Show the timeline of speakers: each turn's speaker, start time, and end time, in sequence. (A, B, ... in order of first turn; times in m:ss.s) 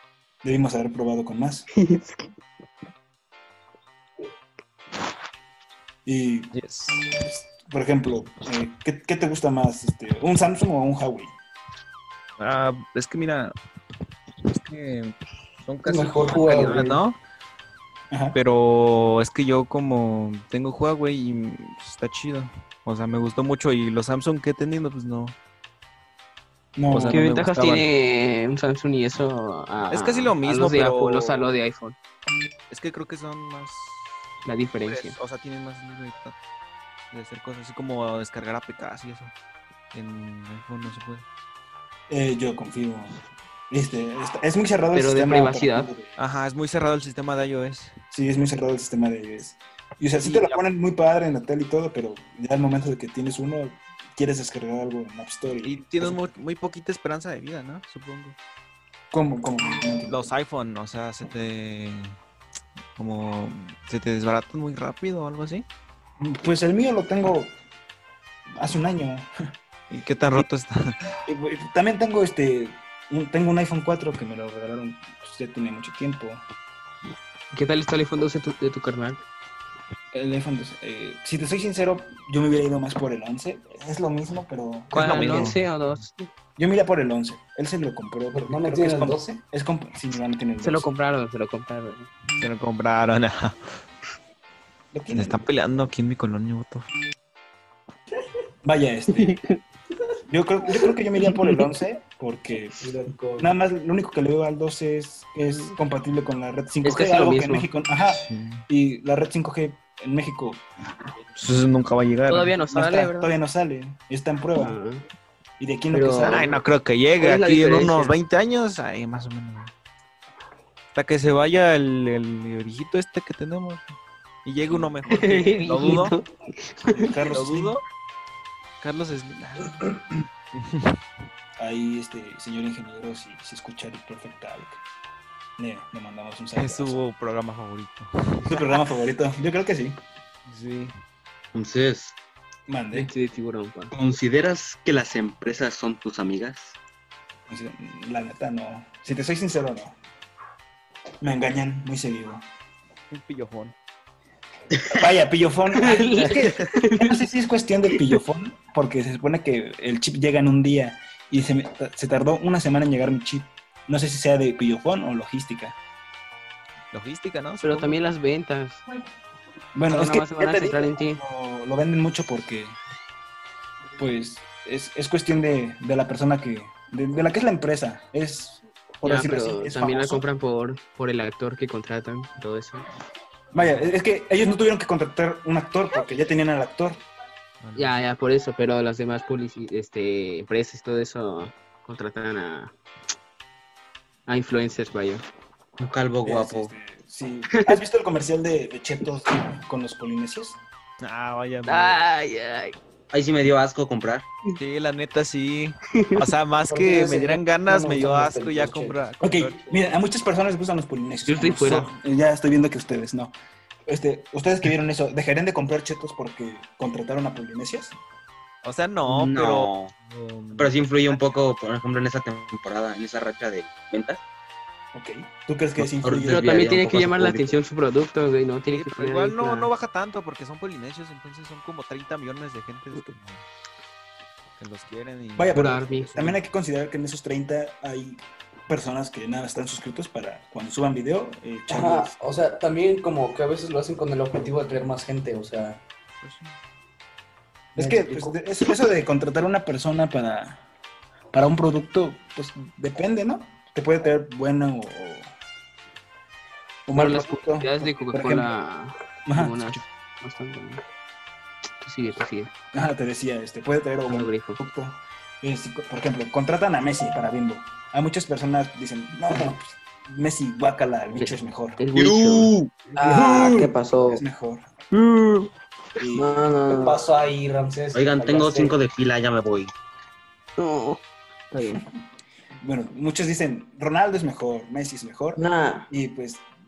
0:00.4-0:01.7 A
0:01.8-0:02.2 B
0:06.1-0:11.3 A
0:06.5-0:07.0 C
0:12.4-0:13.5 C
0:14.5-0:17.2 C
0:15.8-0:17.0 D
0:18.1-0:18.4 A
0:18.3-0:25.4 C
0:26.8-0:27.3 A
0:26.9-0:27.9 C
0:27.1-0:32.0 B
0:29.9-0:31.5 C
0:32.7-0:34.1 C
0:34.4-0:35.2 B
0:34.8-0:36.4 C
0:37.1-0:39.3 C
0:39.9-0:41.2 C
0:42.1-0:43.2 A
0:43.7-0:46.2 A
0:44.9-0:45.9 B
0:46.2-0:48.0 C
0:48.1-0:56.3 A
0:50.2-0:50.6 C
0:55.6-0:58.4 C
0:59.1-1:00.3 A
1:00.1-1:02.2 C
1:03.0-1:05.7 C
1:06.2-1:07.5 A
1:08.6-1:09.3 A
1:09.9-1:11.0 C
1:11.2-1:16.4 A
1:17.5-1:19.2 B
1:20.1-1:25.6 A
1:24.9-1:26.3 B
1:24.9-1:25.6 C
1:26.6-1:30.9 A
1:28.3-1:29.3 D
1:30.6-1:32.1 B
1:32.4-1:33.8 C
1:34.9-1:35.4 A
1:35.1-1:36.9 C
1:38.6-1:39.4 A
1:40.3-1:50.7 A
1:42.8-1:43.5 D
1:46.8-1:47.7 B
1:48.2-1:48.6 C
1:51.3-1:52.6 C
1:52.3-1:53.3 B
1:52.7-1:54.8 A
1:54.6-1:55.0 B
1:55.6-1:56.5 A
1:55.9-1:56.6 B
1:56.2-1:59.7 C
1:57.2-1:58.2 B
2:01.0-2:03.9 C
2:04.4-2:06.2 C
2:05.1-2:07.1 B
2:06.9-2:07.8 A
2:07.3-2:07.8 C
2:08.8-2:11.0 C
2:11.6-2:14.8 A
2:15.6-2:17.0 A
2:16.6-2:18.8 C
2:18.4-2:20.0 A
2:20.5-2:21.0 C
2:21.5-2:22.2 E
2:22.7-2:23.1 A
2:22.9-2:23.9 B
2:23.9-2:26.8 E
2:27.5-2:30.0 A
2:31.2-2:32.4 A
2:33.1-2:33.8 C
2:34.9-2:45.8 A
2:35.8-2:37.2 B
2:46.9-2:48.0 C
2:47.6-2:48.8 B
2:49.8-2:52.8 A
2:49.9-2:51.2 B
2:54.0-3:00.2 A
2:59.0-3:02.8 B
3:03.5-3:07.0 A
3:03.6-3:03.9 C
3:07.6-3:08.1 C
3:07.8-3:12.7 B
3:14.3-3:15.2 B
3:15.8-3:16.7 E
3:16.2-3:20.6 A
3:21.0-3:22.0 C
3:21.7-3:22.8 B
3:23.1-3:24.3 E
3:24.6-3:29.8 C
3:26.0-3:26.2 B
3:26.7-3:29.2 D
3:29.2-3:33.3 A
3:31.3-3:31.9 B
3:33.9-3:38.0 A
3:38.6-3:41.4 C
3:39.1-3:39.9 E
3:40.6-3:44.2 E
3:44.9-3:46.5 A
3:46.0-3:47.6 E
3:46.3-3:49.7 B
3:48.7-3:53.4 C
3:54.6-3:56.4 C
3:55.4-4:02.2 A
3:55.5-3:56.1 B
4:01.7-4:05.8 D
4:06.2-4:06.6 C
4:07.8-4:10.6 A
4:07.8-4:08.4 D
4:11.3-4:15.3 A
4:16.9-4:18.5 A
4:16.9-4:20.8 B
4:19.3-4:19.8 A
4:21.8-4:22.5 B
4:22.7-4:31.8 A
4:24.1-4:24.6 B
4:31.2-4:32.5 B
4:31.9-4:32.7 E
4:33.0-4:34.2 F
4:34.1-4:34.7 A
4:36.0-4:36.4 A
4:36.1-4:37.1 F
4:36.7-4:38.8 D
4:37.9-4:39.7 E
4:40.6-4:41.0 B
4:42.6-4:46.4 A
4:45.4-4:45.9 F